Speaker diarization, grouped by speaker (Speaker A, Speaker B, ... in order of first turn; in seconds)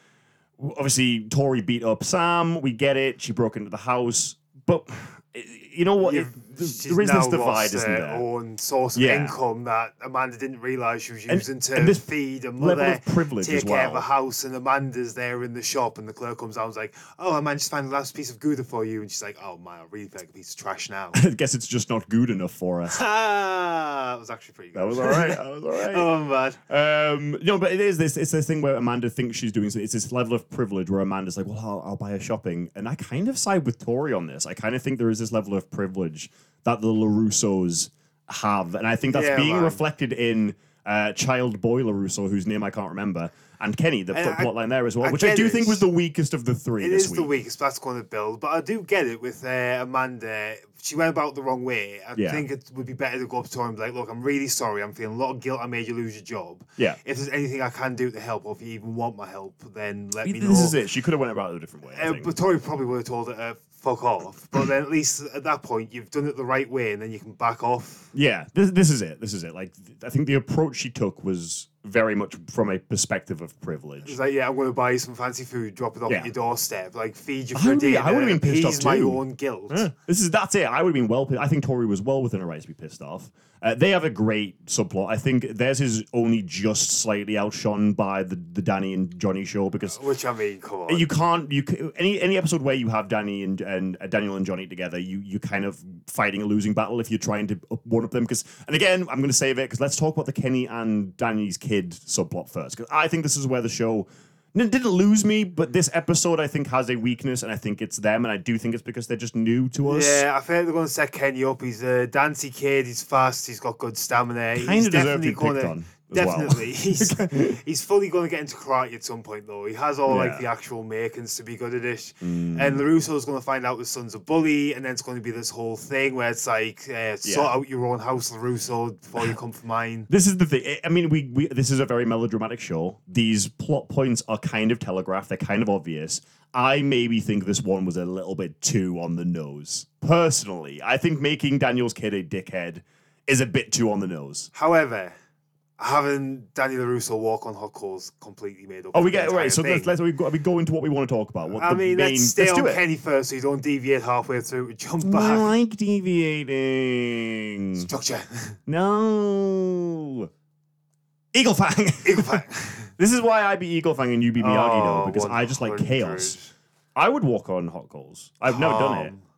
Speaker A: 0.6-8.2, 8.9-9.3, 11.3-14.1, 21.1-22.9, 24.7-26.1, 26.7-47.3, 52.1-52.5, 60.2-62.3, 68.1-74.2, 77.5-90.0, 90.9-110.2, 114.5-117.6, 120.0-120.5, 122.2-122.8, 127.2-127.5, 130.1-144.5, 148.9-152.8, 155.0-157.9, 158.7-160.3, 161.3-162.4, 163.0-166.3, 166.9-169.1
Speaker B: 6.0-21.2, 22.9-26.6, 39.1-39.8, 44.1-45.9, 46.8-60.8, 61.9-68.1, 74.0-79.8, 89.9-91.1, 109.8-130.1, 144.5-145.1, 145.8-149.9, 151.5-155.5, 157.8-158.6, 162.0-162.9, 164.4-166.5, 168.4-169.2